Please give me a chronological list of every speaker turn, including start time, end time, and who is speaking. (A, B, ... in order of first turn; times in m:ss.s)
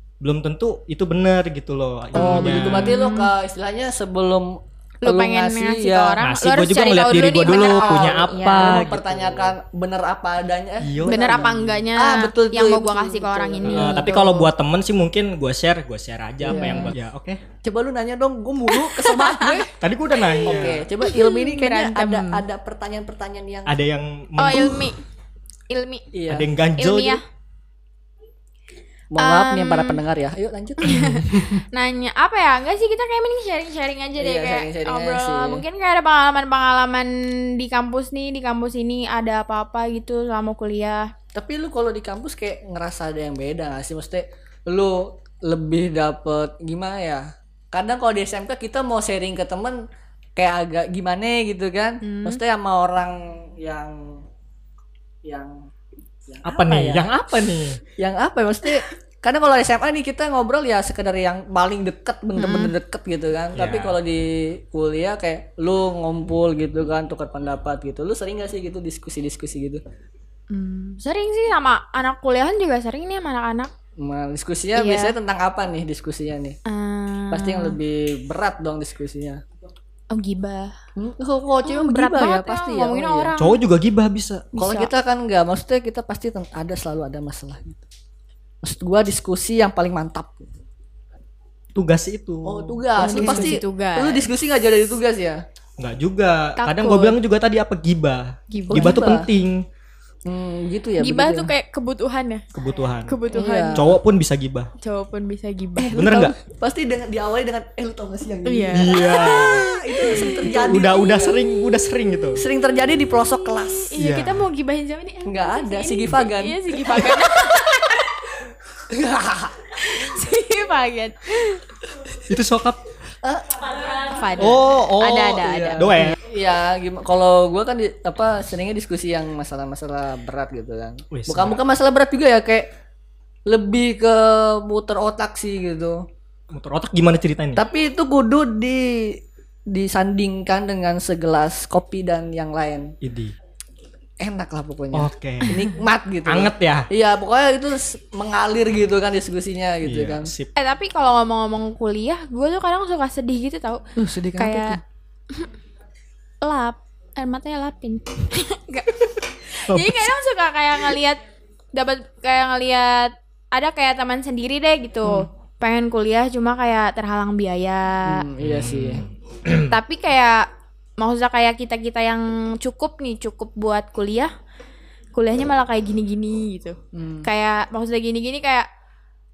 0:00.2-0:02.9 A
0:02.1-0:06.2 B
0:02.2-0:03.3 C
0:05.0-0:09.0 C
0:06.2-0:09.5 A
0:07.4-0:14.2 B
0:10.8-0:11.6 A
0:11.0-0:14.5 C
0:13.6-0:17.4 A
0:16.4-0:17.0 B
0:16.4-0:16.9 C
0:17.6-0:19.7 B
0:18.7-0:19.6 C
0:19.8-0:20.8 A
0:20.2-0:22.4 C
0:20.4-0:23.7 B
0:23.7-0:24.9 A
0:24.4-0:25.0 C
0:25.7-0:26.1 C
0:26.1-0:26.5 B
0:26.3-0:27.2 A
0:26.8-0:27.2 C
0:29.1-0:31.6 B
0:29.2-0:30.0 C
0:30.8-0:41.1 C
0:34.2-0:35.6 B
0:41.3-0:49.8 B
0:50.4-0:54.2 B
0:52.0-0:52.4 C
0:55.2-0:55.7 B
0:56.3-0:57.1 B
0:56.4-0:57.8 A
0:58.0-1:09.8 B
1:02.4-1:02.7 C
1:03.5-1:04.0 A
1:10.5-1:13.7 C
1:14.0-1:16.6 B
1:14.8-1:15.1 C
1:16.6-1:17.8 C
1:17.3-1:19.4 B
1:20.1-1:20.7 C
1:21.0-1:23.3 B
1:21.6-1:23.6 C
1:23.4-1:24.5 A
1:24.5-1:24.9 C
1:24.6-1:27.8 B
1:28.6-1:30.5 B
1:31.7-1:33.5 A
1:32.4-1:35.4 B
1:33.0-1:34.3 C
1:35.8-1:39.6 A
1:36.6-1:37.2 C
1:38.5-1:39.0 C
1:38.7-1:39.3 B
1:40.2-1:41.5 B
1:41.0-1:42.4 C
1:42.5-1:43.2 A
1:43.0-1:43.8 C
1:43.3-1:44.0 B
1:43.7-1:44.7 A
1:44.8-1:46.0 C
1:45.8-1:51.4 B
1:45.9-1:46.3 A
1:48.4-1:51.9 C
1:48.7-1:52.4 A
1:52.3-1:53.9 B
1:53.4-1:58.2 C
1:54.0-1:54.4 A
1:55.2-1:57.8 B
1:58.9-1:59.6 B
1:59.8-2:01.6 C
2:02.3-2:02.8 A
2:03.2-2:04.1 B
2:03.9-2:06.2 C
2:04.4-2:06.2 A
2:05.4-2:12.7 B
2:11.1-2:11.6 A
2:13.5-2:16.0 B
2:16.5-2:17.6 A
2:17.6-2:22.9 B
2:23.0-2:23.3 A
2:24.2-2:30.3 B
2:24.9-2:25.6 A
2:26.2-2:26.9 A
2:29.8-2:30.5 A
2:30.6-2:33.8 C
2:34.0-2:34.8 B
2:34.4-2:34.8 C
2:36.4-2:41.2 C
2:39.7-2:40.1 A
2:41.7-2:48.2 C
2:48.0-2:49.0 B
2:48.4-2:49.8 A
2:49.7-2:50.5 C
2:51.0-2:54.3 C
2:55.1-2:58.7 C
2:56.9-2:57.3 B